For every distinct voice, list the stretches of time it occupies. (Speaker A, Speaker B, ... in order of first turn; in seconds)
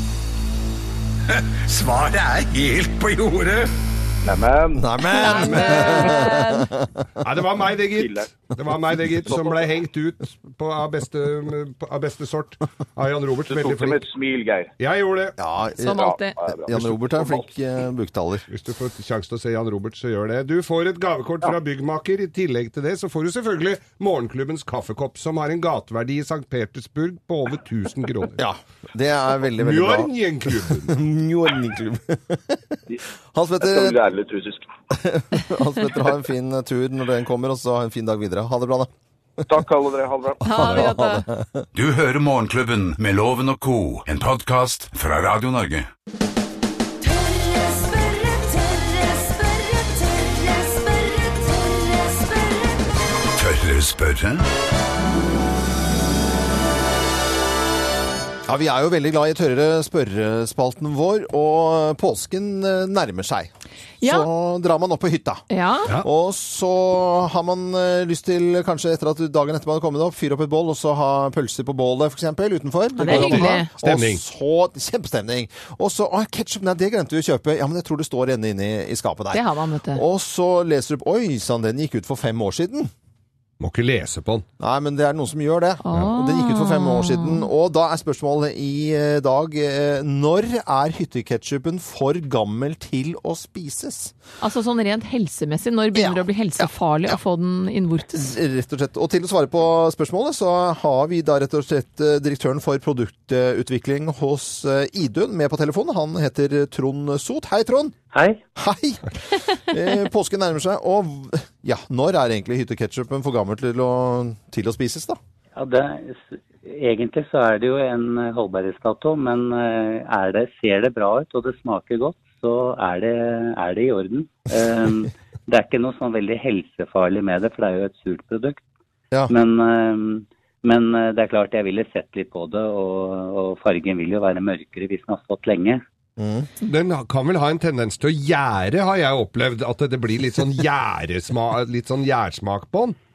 Speaker A: 1.3-3.7, 41.7-45.9, 53.3-54.5
Speaker B: 4.2-4.9, 7.9-8.3, 9.3-9.7, 13.5-14.7, 15.8-17.5, 33.6-34.7, 39.5-40.4
Speaker C: 4.7-7.0, 15.4-18.5, 28.4-32.8, 33.3-34.0, 34.9-38.9, 40.4-41.6, 58.5-65.4, 66.0-82.9, 84.6-94.1, 95.9-97.2, 98.1-108.0, 108.6-115.2, 136.2-136.5
Speaker D: 5.1-6.7, 15.8-16.4, 40.4-41.3, 64.0-64.3, 65.5-65.9, 73.0-73.7, 79.3-80.0, 85.8-87.5, 94.4-98.3
Speaker E: 5.3-6.2, 7.2-14.0, 14.8-15.4, 18.5-28.4, 29.6-31.0, 73.0-74.2, 83.6-84.5, 136.6-142.9
Speaker F: 47.0-52.9
Speaker G: 108.1-108.4, 115.5-128.6, 129.3-135.8